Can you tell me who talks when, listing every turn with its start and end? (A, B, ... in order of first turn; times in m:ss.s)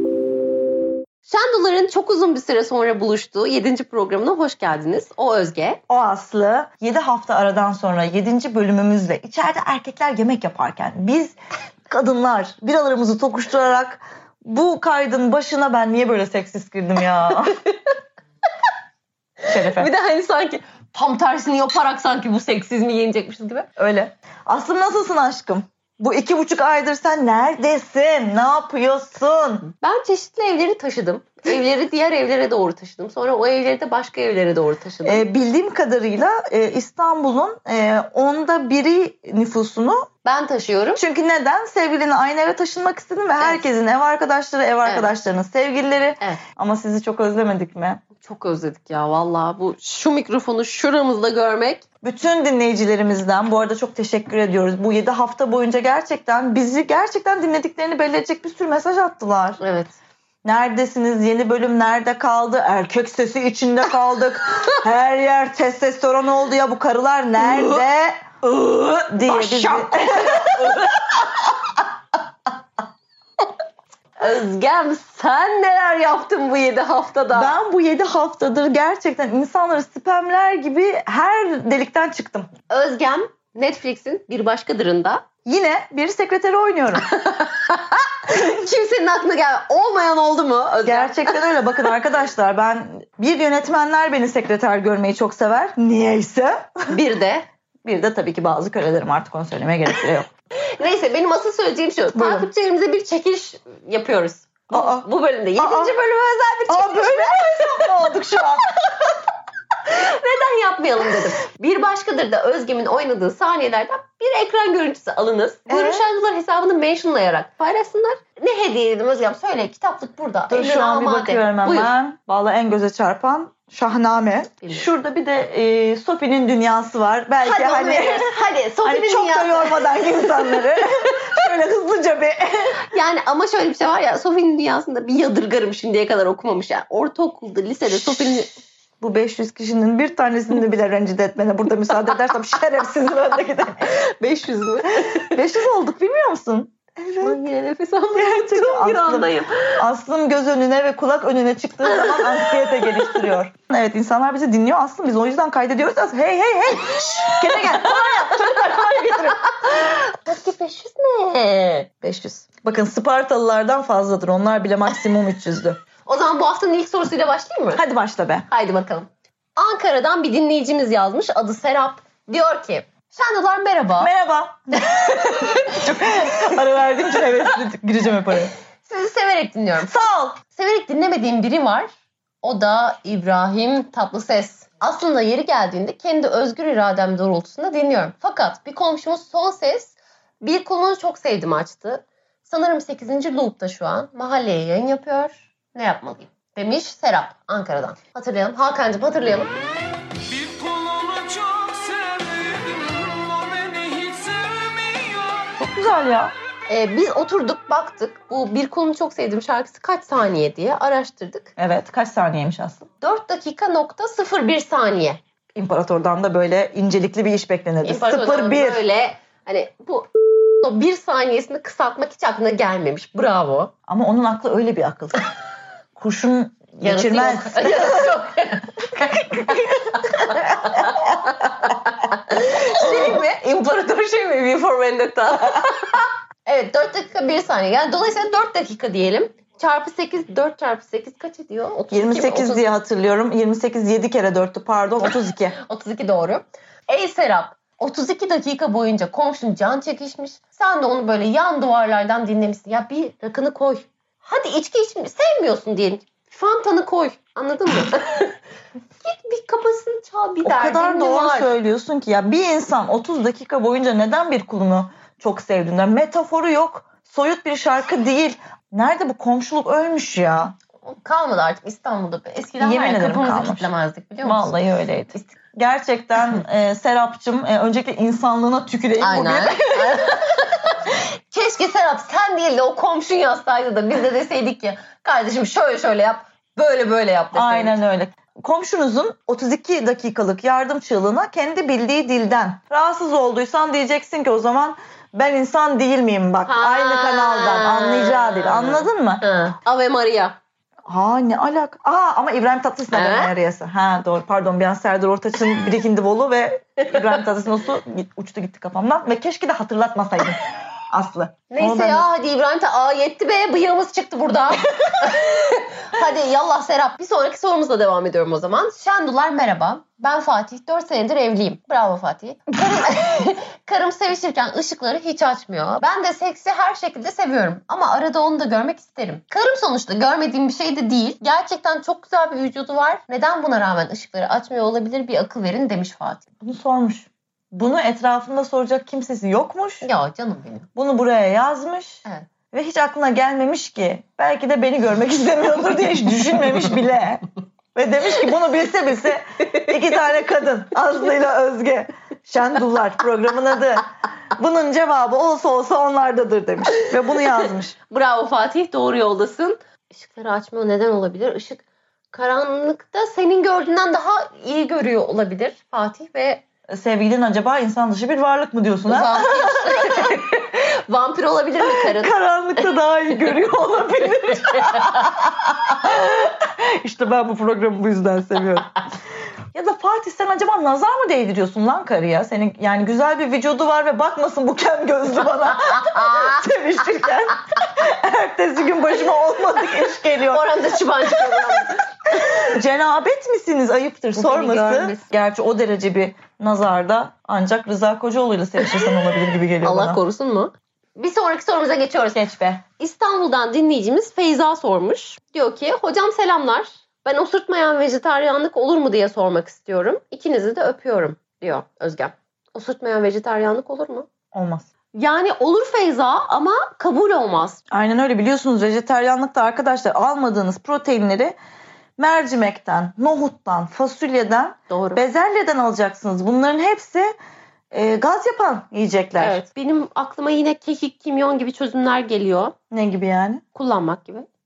0:01.3-0:05.8 A
0:05.9-0:11.4 B
0:11.9-0:17.6 B
0:19.5-0:19.9 B
0:19.6-0:23.7 A
0:23.8-0:29.7 B
0:29.8-0:35.2 A
0:35.0-0:40.1 B
0:40.2-0:41.0 A
0:41.0-0:48.0 B
0:43.4-0:43.6 A
0:44.9-0:45.1 A
0:48.2-0:51.8 A
0:52.0-0:59.6 B
0:59.6-0:59.9 A
1:00.4-1:08.2 B
1:07.4-1:07.8 A
1:08.4-1:11.5 A
1:09.1-1:10.8 B
1:14.2-1:17.6 A
1:17.3-1:22.5 B
1:22.7-1:25.2 A
1:25.5-1:27.1 B
1:27.0-1:31.5 A
1:30.8-1:37.0 B
1:36.9-1:37.4 A
1:37.8-1:40.3 B
1:40.8-1:48.1 A
1:42.1-1:42.5 B
1:44.7-1:45.1 B
1:45.6-1:46.0 B
1:46.7-1:48.6 B
1:48.7-1:49.2 A
1:49.8-2:01.9 A
1:55.7-1:56.0 B
2:00.5-2:08.3 B
2:04.6-2:04.9 A
2:07.4-2:10.7 A
2:08.8-2:12.8 B
2:12.9-2:18.6 A
2:17.9-2:23.9 B
2:23.8-2:25.4 A
2:25.0-2:27.4 B
2:27.2-2:29.8 A
2:28.2-2:39.4 B
2:31.9-2:33.3 A
2:37.0-2:41.9 A
2:42.0-2:45.8 B
2:46.0-2:47.8 A
2:47.8-2:48.5 B
2:48.5-2:54.1 A
2:54.0-2:58.5 B
2:54.8-2:55.7 A
2:58.8-2:59.9 A
2:59.8-3:00.4 B
3:00.5-3:01.9 A
3:02.4-3:19.5 A
3:20.3-3:25.5 C
3:25.6-3:26.3 B
3:26.7-3:31.5 A
3:31.6-3:32.9 B
3:33.0-3:35.2 A
3:35.6-3:38.8 B
3:37.8-3:40.1 A
3:40.6-3:43.7 A
3:43.9-3:45.3 B
3:46.0-3:48.2 B
3:46.8-4:02.7 A
3:49.0-3:51.0 B
3:52.8-3:53.2 B
4:01.9-4:05.6 B
4:05.0-4:18.4 A
4:19.0-4:21.6 A
4:20.4-4:30.6 B
4:30.8-4:34.6 A
4:32.6-4:33.7 B
4:34.2-4:40.1 B
4:39.0-4:47.8 A
4:47.3-4:59.2 B
4:56.5-5:00.4 A
5:00.9-5:12.1 B
5:02.9-5:03.3 A
5:11.5-5:36.2 A
5:36.4-5:39.9 B
5:39.8-5:40.7 A
5:40.8-5:47.2 B
5:47.8-5:53.9 B
5:54.4-5:57.8 B
5:57.9-6:06.4 A
6:06.7-6:10.1 B
6:08.9-6:12.2 A
6:11.6-6:18.8 B
6:14.5-6:14.8 A
6:19.5-6:30.5 B
6:25.6-6:26.4 A
6:30.3-6:32.3 A
6:31.0-6:31.6 B
6:32.1-6:40.0 B
6:34.2-6:35.0 A
6:39.6-6:54.1 A
6:42.1-6:42.6 B
6:54.3-6:54.7 B
6:54.9-6:57.6 A
6:57.7-7:01.4 B
7:02.0-7:07.1 B
7:04.7-7:05.0 A
7:07.7-7:09.4 B
7:09.2-7:12.6 A
7:12.7-7:13.4 B
7:13.5-7:14.3 A